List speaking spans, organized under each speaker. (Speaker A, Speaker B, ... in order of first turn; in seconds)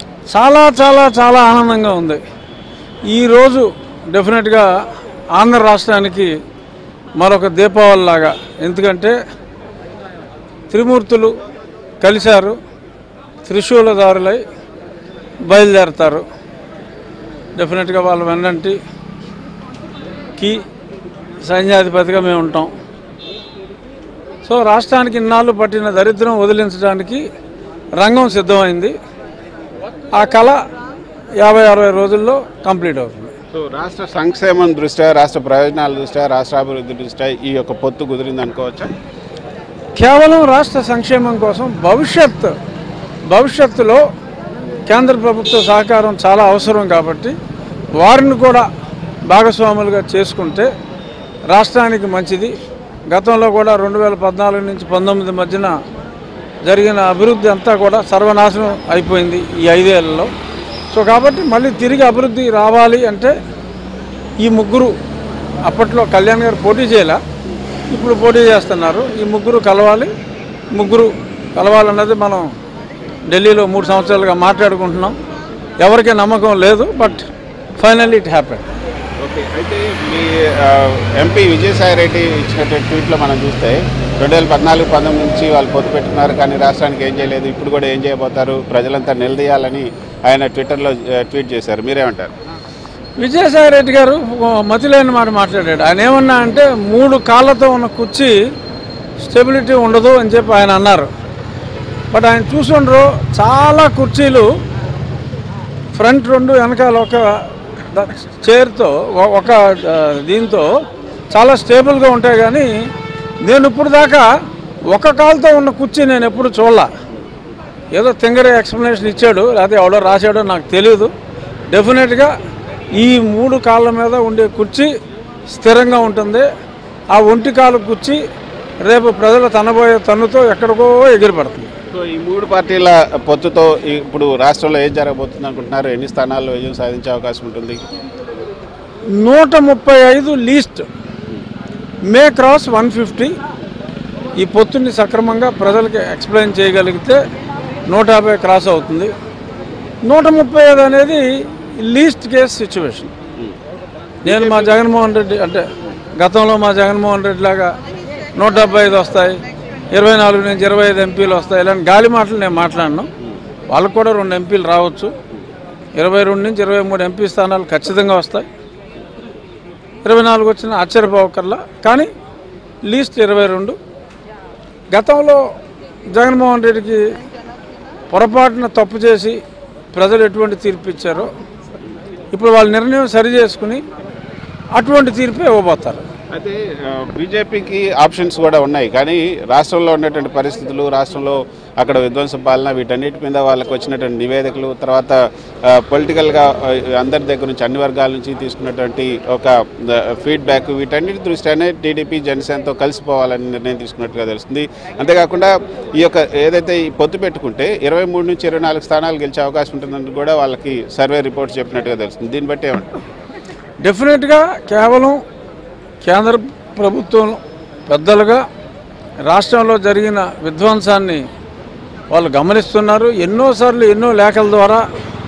Speaker A: 0.3-2.2, 3.1-4.7, 5.3-6.3, 7.2-9.2, 10.7-11.3, 12.0-12.6, 13.4-14.4, 15.4-16.2, 17.6-18.8, 20.4-20.6, 21.4-22.7, 24.4-27.2, 28.0-28.9, 30.1-30.6, 31.4-33.3, 40.0-42.5, 43.3-44.0, 44.9-47.3, 48.0-48.7, 49.2-50.7, 51.5-52.5, 53.1-55.7, 56.6-60.3, 60.9-63.3, 64.4-64.9, 65.6-67.2, 67.9-70.1, 70.7-72.5, 73.3-75.2, 75.8-78.7, 93.2-98.3, 99.2-101.1, 102.1-104.5, 105.9-110.7, 111.3-112.9, 113.4-114.3, 114.9-116.9, 117.9-121.1, 121.7-122.3, 123.0-124.9, 125.5-126.5, 127.1-128.2, 128.8-131.7, 139.2-140.9, 142.1-143.3, 144.4-147.2, 147.9-149.1, 150.0-153.1, 154.2-157.8, 158.3-163.1, 163.7-165.1, 165.9-168.5, 170.0-172.1, 172.8-173.8, 174.9-175.4, 176.1-177.1, 178.1-179.4, 179.9-181.3, 182.3-183.8, 184.8-186.0, 213.8-215.2, 216.0-218.4, 219.2-221.2, 222.1-224.8
Speaker B: 33.5-38.9, 79.2-92.3, 131.9-137.8, 154.2-154.8, 186.3-212.9